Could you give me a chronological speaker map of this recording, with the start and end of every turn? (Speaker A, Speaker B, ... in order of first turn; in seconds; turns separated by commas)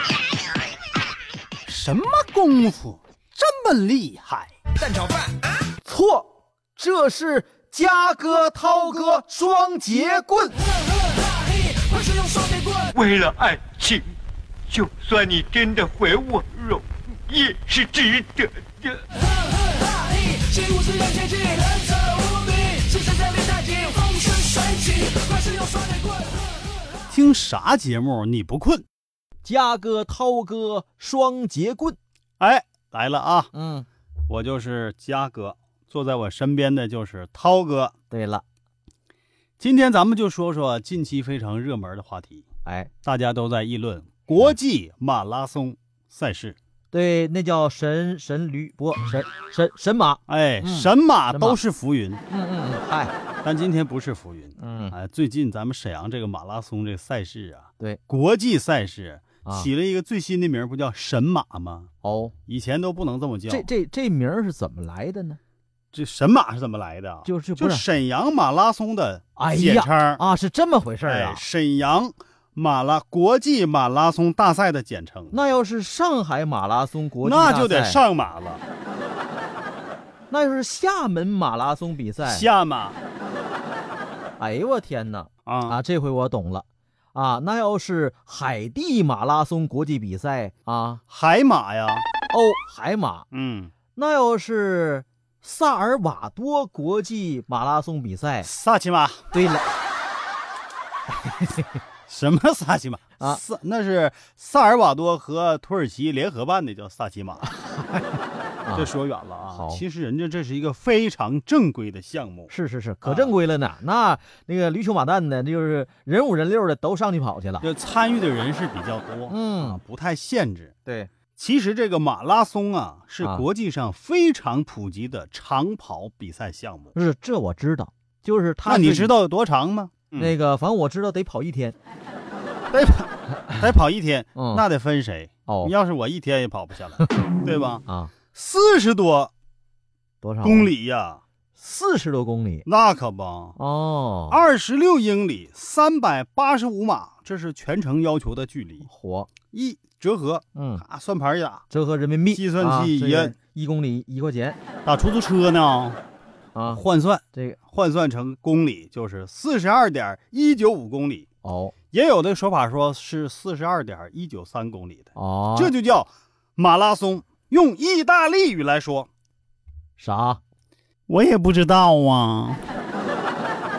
Speaker A: 1.6-4.5, Speaker B: 4.8-5.4, Speaker C: 5.8-10.6, Speaker B: 10.6-12.9, Speaker D: 12.9-14.1, Speaker D: 14.7-19.0, Speaker B: 19.1-27.0, Speaker A: 27.1-28.9, Speaker C: 29.4-32.0, Speaker A: 32.4-33.5, Speaker C: 33.5-33.9, Speaker A: 34.3-37.9, Speaker C: 38.1-38.4, Speaker A: 39.6-42.4, Speaker C: 42.6-42.9, Speaker A: 43.0-46.6, Speaker C: 46.9-51.6, Speaker A: 50.3-52.2, Speaker C: 52.3-53.1, Speaker A: 53.4-61.9, Speaker C: 54.6-54.9, Speaker C: 62.0-62.3, Speaker A: 62.5-63.7, Speaker C: 63.5-65.4, Speaker A: 65.9-70.2, Speaker C: 67.2-67.8, Speaker C: 69.4-71.4, Speaker A: 71.0-75.3, Speaker C: 75.3-78.0, Speaker A: 77.2-78.6, Speaker C: 80.3-82.4, Speaker A: 82.2-83.0, Speaker C: 84.4-91.0, Speaker A: 85.5-85.8, Speaker A: 91.1-92.1, Speaker C: 92.3-93.3, Speaker A: 93.3-93.7, Speaker C: 93.9-98.5, Speaker A: 98.4-99.3, Speaker C: 99.3-99.7, Speaker C: 101.1-101.7, Speaker A: 102.1-107.4, Speaker C: 107.5-108.9, Speaker A: 108.7-112.5, Speaker C: 109.5-109.8, Speaker C: 112.5-117.7, Speaker A: 113.0-113.3, Speaker A: 117.6-120.7, Speaker C: 119.3-119.8, Speaker C: 120.8-121.1, Speaker A: 121.4-126.9, Speaker C: 126.9-129.1, Speaker A: 128.7-130.3, Speaker C: 130.2-131.8, Speaker A: 132.7-139.3, Speaker C: 134.3-134.6, Speaker C: 135.5-135.7, Speaker C: 137.8-138.1, Speaker C: 140.2-140.7, Speaker A: 140.4-141.2, Speaker C: 141.6-142.7, Speaker A: 142.7-143.6, Speaker C: 143.6-144.4, Speaker A: 144.3-148.9, Speaker C: 148.9-149.3, Speaker A: 149.5-151.7, Speaker C: 150.6-150.8, Speaker C: 151.7-154.6, Speaker A: 152.3-153.3, Speaker A: 154.8-156.0, Speaker C: 156.5-156.8, Speaker A: 156.7-161.2, Speaker C: 161.4-161.7, Speaker A: 161.9-169.1, Speaker C: 165.2-165.7, Speaker C: 170.0-170.4, Speaker A: 171.1-172.6